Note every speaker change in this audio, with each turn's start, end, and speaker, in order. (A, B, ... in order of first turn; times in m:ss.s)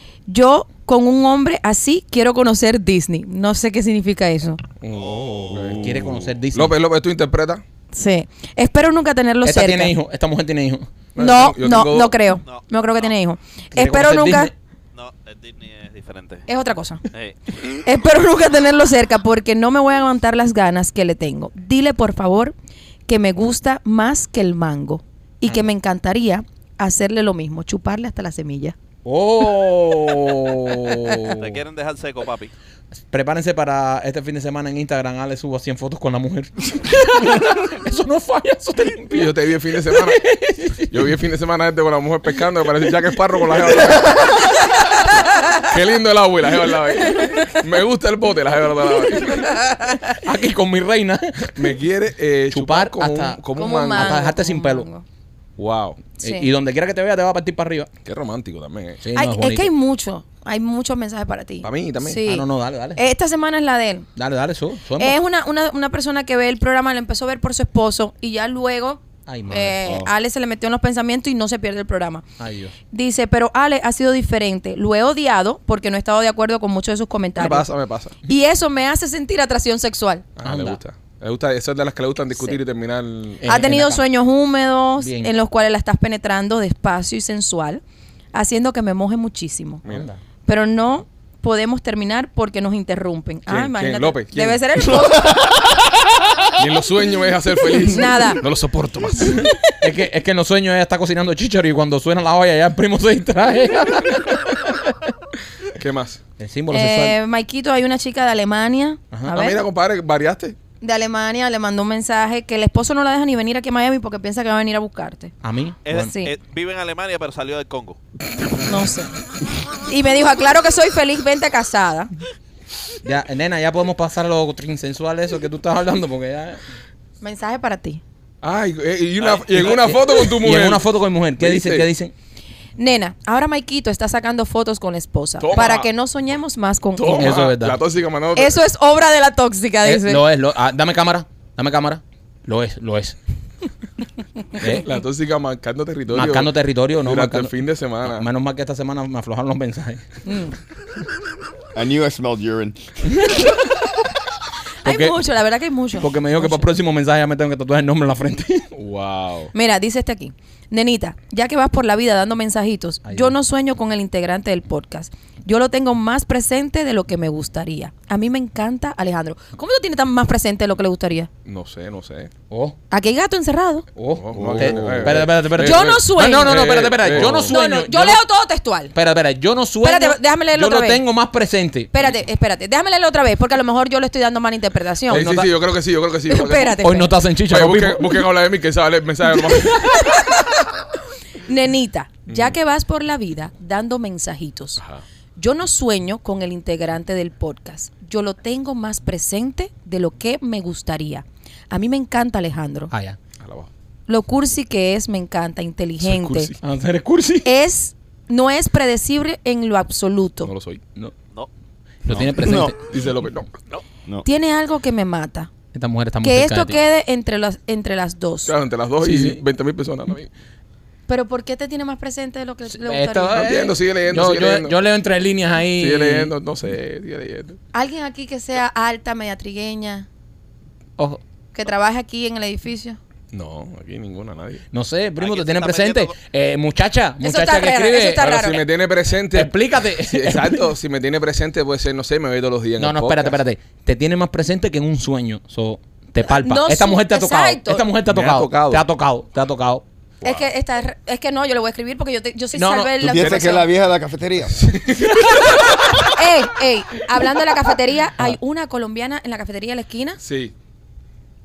0:00.3-0:04.6 A
0:04.8-0:07.6 B
0:04.9-0:05.8 C
0:05.7-0:06.7 D
0:07.9-0:09.9 A
0:09.4-0:10.9 D
0:11.1-0:12.2 B
0:11.2-0:14.5 A
0:12.4-0:13.1 C
0:13.7-0:14.5 D
0:14.9-0:16.5 C
0:16.5-0:17.1 A
0:17.1-0:17.6 C
0:17.7-0:22.5 A
0:23.1-0:28.8 A
0:29.0-0:31.6 D
0:31.2-0:32.5 C
0:33.1-0:40.9 D
0:39.1-0:40.2 B
0:40.9-0:44.2 B
0:43.7-0:44.4 D
0:45.6-0:49.6 B
0:49.2-0:50.2 A
0:50.2-0:51.7 D
0:51.5-0:54.2 B
0:52.5-0:54.9 D
0:53.5-0:55.0 A
0:55.6-0:56.1 B
0:56.2-0:56.5 A
0:56.2-0:57.9 D
0:58.0-0:59.0 B
0:59.0-0:59.7 D
0:59.1-1:04.1 A
1:01.6-1:02.2 B
1:02.2-1:03.0 D
1:04.2-1:05.2 D
1:05.0-1:12.2 A
1:09.3-1:09.8 D
1:12.4-1:12.7 D
1:12.9-1:17.7 A
1:17.4-1:18.2 B
1:18.2-1:20.3 A
1:20.4-1:23.4 B
1:20.4-1:20.8 D
1:23.4-1:24.0 D
1:23.4-1:27.8 A
1:25.0-1:25.3 D
1:28.3-1:29.8 A
1:29.9-1:30.2 D
1:30.4-1:35.6 A
1:33.5-1:35.2 B
1:36.6-1:39.5 B
1:37.8-1:38.4 A
1:39.7-1:44.8 D
1:45.7-1:46.2 B
1:46.4-1:47.2 D
1:46.7-1:49.6 A
1:49.3-1:50.6 B
1:50.8-1:55.3 A
1:55.4-1:56.1 D
1:55.8-1:58.0 C
1:55.9-1:56.3 A
1:58.6-1:59.1 A
1:59.8-2:02.1 A
2:03.0-2:06.6 D
2:07.2-2:08.0 A
2:08.4-2:10.9 B
2:09.2-2:09.7 C
2:09.6-2:12.1 D
2:11.4-2:11.9 B
2:12.8-2:17.4 A
2:15.4-2:15.9 B
2:17.0-2:18.6 B
2:17.1-2:17.8 D
2:18.3-2:20.2 A
2:19.8-2:23.2 D
2:24.6-2:24.9 D
2:24.8-2:28.3 B
2:26.1-2:30.0 D
2:30.2-2:30.6 A
2:31.7-2:32.8 E
2:33.1-2:33.5 D
2:34.8-2:36.6 A
2:34.8-2:35.2 D
2:36.0-2:38.7 D
2:38.7-2:39.5 B
2:39.5-2:51.3 A
2:43.0-2:43.3 D
2:51.4-2:52.3 B
2:52.5-2:52.8 D
2:52.9-2:53.9 A
2:54.0-2:58.2 D
2:54.2-2:57.5 B
2:54.3-2:55.1 E
2:55.6-2:58.9 A
2:58.9-3:02.1 D
2:59.8-3:01.0 A
3:01.9-3:05.5 A
3:05.1-3:06.8 B
3:05.2-3:05.5 D
3:06.2-3:07.1 A
3:06.8-3:08.2 D
3:07.4-3:10.1 B
3:09.7-3:10.5 A
3:11.4-3:14.8 A
3:12.3-3:12.6 B
3:14.8-3:15.0 B
3:15.4-3:22.9 A
3:22.9-3:23.2 D
3:23.4-3:23.7 B
3:24.1-3:26.5 A
3:26.0-3:26.6 B
3:26.6-3:27.5 D
3:27.4-3:30.5 A
3:30.4-3:30.8 B
3:32.0-3:32.8 D
3:32.1-3:33.5 B
3:32.4-3:32.7 E
3:34.2-3:35.5 A
3:35.7-3:36.8 D
3:36.2-3:38.5 A
3:38.4-3:40.3 B
3:39.0-3:39.4 D
3:41.1-3:43.7 A
3:42.7-3:46.3 D
3:43.3-3:44.8 B
3:45.8-3:47.6 B
3:47.7-3:50.1 A
3:51.5-3:53.0 A
3:53.3-3:54.6 B
3:54.7-3:58.3 D
3:55.2-3:56.2 C
3:57.2-3:58.7 A
3:58.2-4:03.4 B
3:59.3-4:00.6 D
4:02.8-4:09.8 D
4:06.2-4:07.9 A
4:08.0-4:08.8 B
4:10.2-4:10.5 B
4:10.2-4:13.7 A
4:12.5-4:13.0 D
4:13.0-4:14.6 E
4:13.2-4:13.5 B
4:14.6-4:15.4 B
4:15.5-4:20.2 A
4:20.2-4:20.5 B